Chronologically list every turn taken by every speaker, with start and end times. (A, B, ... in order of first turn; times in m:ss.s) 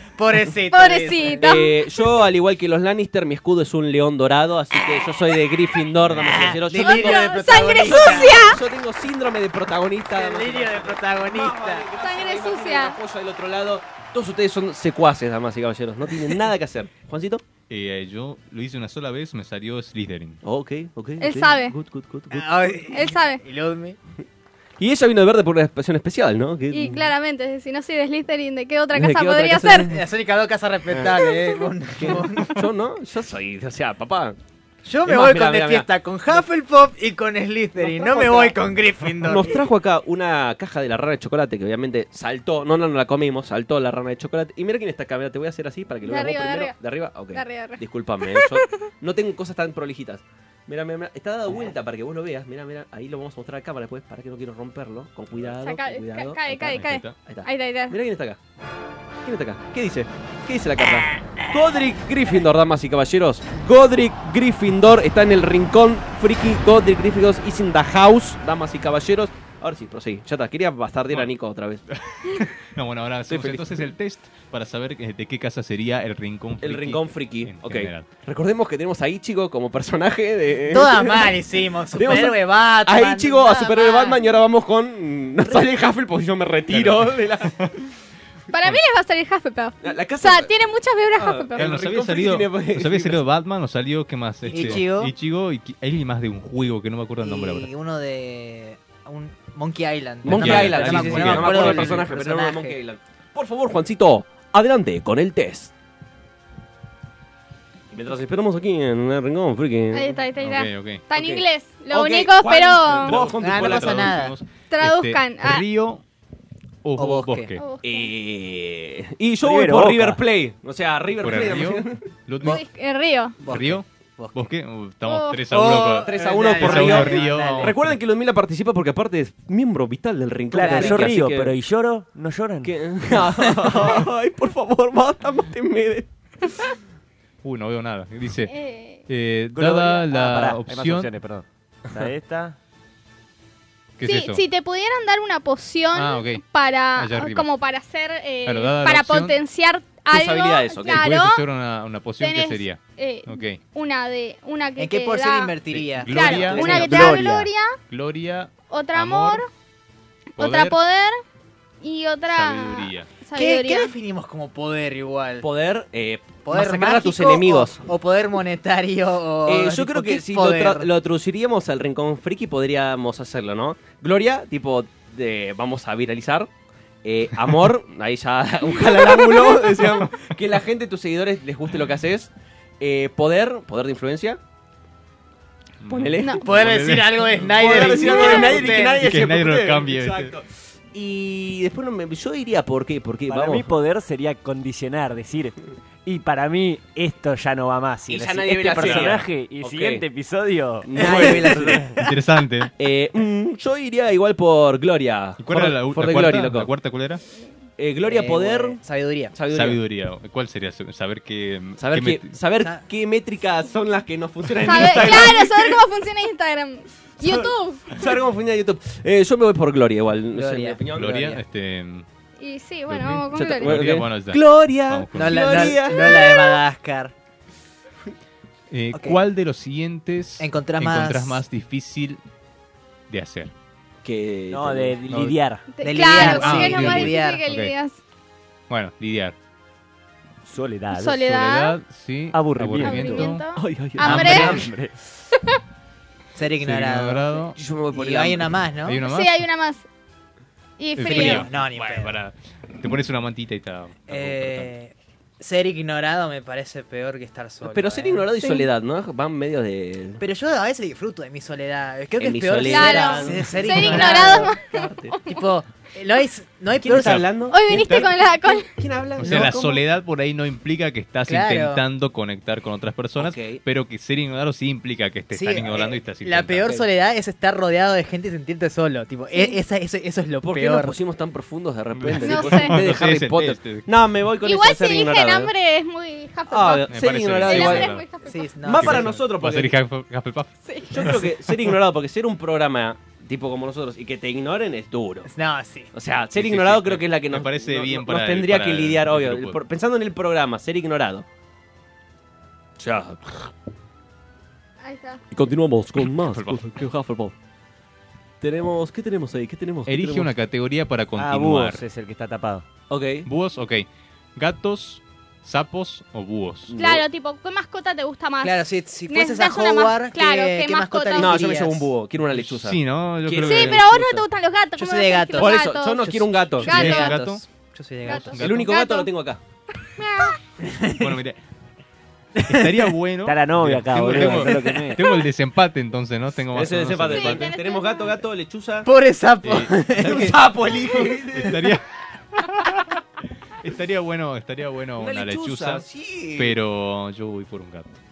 0:00.2-0:01.5 A
0:00.7-0:02.1 B
0:01.4-0:17.4 C
0:06.0-0:06.5 D
0:06.2-0:08.4 A
0:06.8-0:08.6 B
0:10.1-0:11.9 A
0:12.0-0:13.0 B
0:17.7-0:20.4 D
0:20.4-0:22.8 C
0:21.2-0:21.8 B
0:22.3-0:24.0 A
0:22.9-0:23.4 B
0:24.8-0:27.1 C
0:26.7-0:29.9 B
0:28.9-0:30.0 C
0:29.7-0:32.6 A
0:32.0-0:34.4 C
0:34.8-0:39.5 A
0:35.0-0:35.9 C
0:37.8-0:38.6 C
0:39.2-0:58.4 C
0:46.0-0:46.8 B
0:47.3-0:48.9 B
0:55.6-0:58.0 B
0:56.5-0:57.2 D
0:59.2-1:11.8 C
1:12.0-1:18.1 D
1:13.3-1:13.8 C
1:16.6-1:21.4 C
1:20.7-1:24.2 A
1:22.0-1:27.5 C
1:26.7-1:27.7 D
1:28.5-1:31.7 B
1:29.8-1:30.5 C
1:31.2-1:33.2 C
1:31.6-1:37.7 D
1:34.4-1:34.9 C
1:34.5-1:35.1 A
1:37.2-1:42.8 A
1:40.2-1:45.7 C
1:40.3-1:42.1 D
1:47.9-1:50.2 C
1:49.9-1:53.2 B
1:50.4-1:51.1 D
1:51.1-1:54.2 C
1:52.8-1:56.0 D
1:53.3-1:54.4 A
1:54.7-1:55.6 B
1:56.8-1:57.6 D
1:57.0-1:57.6 A
1:57.6-1:58.1 B
1:57.8-2:02.0 C
1:59.4-2:00.2 E
2:01.2-2:02.6 D
2:02.4-2:03.4 B
2:03.4-2:04.5 A
2:03.4-2:08.0 D
2:05.0-2:05.4 B
2:05.5-2:07.7 A
2:06.0-2:11.5 C
2:10.5-2:12.8 E
2:10.6-2:11.1 A
2:12.6-2:16.1 C
2:17.4-2:18.5 D
2:18.4-2:19.0 B
2:19.1-2:21.1 D
2:19.5-2:22.6 E
2:24.0-2:24.4 D
2:24.0-2:31.4 B
2:25.9-2:27.5 D
2:28.4-2:29.4 D
2:30.1-2:31.1 C
2:30.8-2:33.6 D
2:32.2-2:35.6 B
2:34.8-2:37.0 A
2:35.7-2:37.3 D
2:36.1-2:37.8 B
2:36.4-2:37.1 C
2:36.6-2:37.5 E
2:37.9-2:39.4 D
2:38.7-2:39.5 B
2:40.4-2:40.8 D
2:40.4-2:41.2 B
2:41.8-2:43.9 B
2:42.3-2:43.1 D
2:43.4-2:45.5 A
2:45.4-2:47.8 C
2:46.4-2:50.9 A
2:49.5-2:56.5 C
2:57.0-3:04.4 C
2:59.8-3:00.1 D
3:05.8-3:07.2 D
3:05.9-3:13.7 C
3:06.2-3:06.5 B
3:06.4-3:09.0 A
3:08.0-3:08.6 B
3:08.6-3:10.4 D
3:13.3-3:22.0 E
3:18.1-3:20.0 C
3:18.8-3:19.1 D
3:20.8-3:21.9 C
3:21.0-3:21.4 A
3:22.0-3:22.7 D
3:22.8-3:26.7 C
3:25.4-3:27.2 D
3:27.8-3:28.8 C
3:28.0-3:29.3 A
3:29.3-3:29.8 C
3:29.5-3:32.3 D
3:31.8-3:35.8 C
3:34.6-3:37.9 B
3:37.2-3:41.3 C
3:40.3-3:41.4 A
3:40.9-3:42.1 D
3:42.4-3:43.8 B
3:42.9-3:45.7 D
3:43.3-3:46.3 C
3:45.1-3:47.1 A
3:45.8-3:46.6 B
3:48.7-3:52.2 D
3:48.9-3:49.2 A
3:50.4-3:51.4 A
3:53.1-3:53.5 D
3:54.0-3:55.0 C
3:54.5-3:55.6 E
3:55.1-3:55.4 D
3:55.7-3:58.0 B
3:55.8-3:57.4 A
3:56.0-3:57.8 D
3:58.7-3:59.4 D
4:00.5-4:01.3 E
4:00.9-4:01.8 B
4:01.2-4:03.5 D
4:02.3-4:03.4 E
4:02.8-4:04.6 B
4:03.6-4:04.7 C
4:04.0-4:04.9 E
4:04.0-4:04.6 A
4:06.4-4:09.0 A
4:06.6-4:07.6 D
4:07.6-4:08.6 C
4:08.8-4:09.5 D
4:09.0-4:09.8 B
4:10.8-4:11.4 B
4:11.0-4:14.7 D
4:11.0-4:12.2 A
4:14.1-4:18.3 A
4:17.6-4:20.2 C
4:18.4-4:18.7 B
4:20.2-4:24.6 A
4:22.2-4:25.1 C
4:22.6-4:25.4 B
4:25.2-4:27.3 A
4:26.8-4:29.8 C
4:27.5-4:28.7 B
4:29.2-4:36.6 D
4:29.2-4:29.5 A
4:31.3-4:31.8 A
4:33.2-4:33.6 C
4:35.3-4:41.0 A
4:40.5-4:45.5 C
4:42.0-4:43.9 D
4:42.2-4:42.8 B
4:44.4-4:46.9 B
4:46.5-4:48.0 C
4:46.8-4:48.1 D
4:47.4-4:48.6 B
4:48.2-4:49.1 A
4:48.6-4:49.7 C
4:48.7-4:51.8 D
4:50.6-4:51.0 B
4:50.9-4:55.3 C
4:55.2-4:55.9 A
4:55.9-5:01.3 C
4:56.4-4:59.6 D
5:02.8-5:03.5 C
5:04.8-5:05.2 B
5:05.3-5:07.3 C
5:06.0-5:06.8 D
5:08.4-5:10.3 C
5:09.9-5:11.8 D
5:11.2-5:12.6 E
5:12.9-5:13.3 C
5:13.2-5:16.8 D
5:16.7-5:17.1 C
5:16.7-5:21.5 B
5:18.4-5:21.9 A
5:21.2-5:24.3 C
5:22.3-5:23.9 D
5:23.4-5:27.1 B
5:24.8-5:28.4 A
5:25.4-5:26.7 C
5:26.6-5:27.4 D
5:28.1-5:29.1 B
5:28.4-5:28.8 D
5:28.4-5:29.4 C
5:30.0-5:30.4 B
5:30.6-5:31.1 A
5:30.9-5:31.4 D
5:32.4-5:32.7 A
5:32.4-5:37.5 D
5:33.2-5:35.0 E
5:34.1-5:34.5 C
5:36.5-5:38.9 C
5:37.1-5:38.2 B
5:38.8-5:40.4 A
5:39.4-5:39.7 D
5:40.0-5:41.6 C
5:41.3-5:43.0 D
5:43.6-5:45.8 D
5:45.0-5:46.6 C
5:46.4-5:48.0 D